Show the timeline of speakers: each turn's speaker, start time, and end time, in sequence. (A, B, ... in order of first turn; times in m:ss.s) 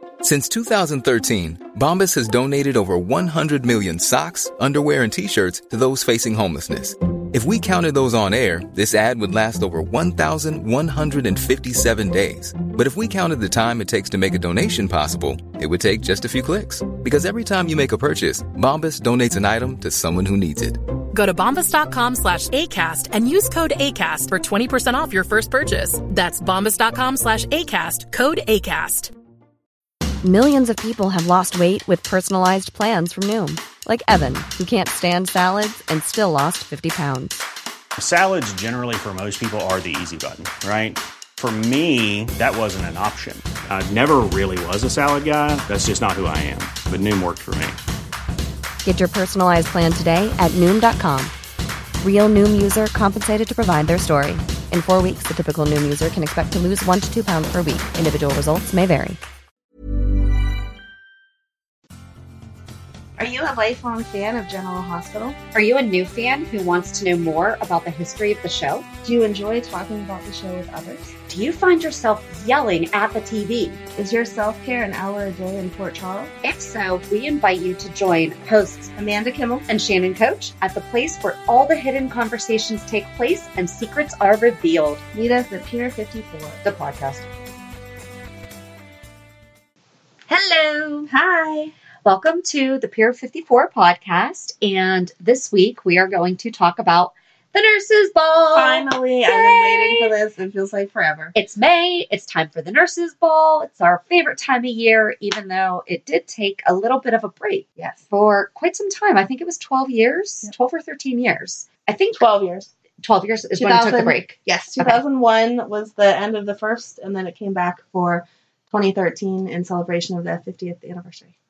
0:00.2-0:20.8 A
0:21.1-0:29.1 B
0:30.2-0:37.4 C
0:38.0-0:47.8 D
0:48.8-0:51.3 C
0:52.0-0:59.2 C
1:03.2-1:05.4 E
1:05.5-1:08.9 F
1:09.0-1:11.1 E
1:11.3-1:13.8 F
1:14.0-1:16.3 E
1:16.4-1:18.9 F
1:19.0-1:19.7 E
1:19.7-1:25.0 F
1:25.1-1:26.6 E
1:26.6-1:27.2 F
1:30.3-1:31.1 F
1:31.1-1:31.7 E
1:32.0-1:40.1 F
1:38.5-1:41.3 E
1:41.3-1:52.2 F
1:52.2-1:52.7 E
1:53.0-1:55.0 F
1:53.6-2:01.3 E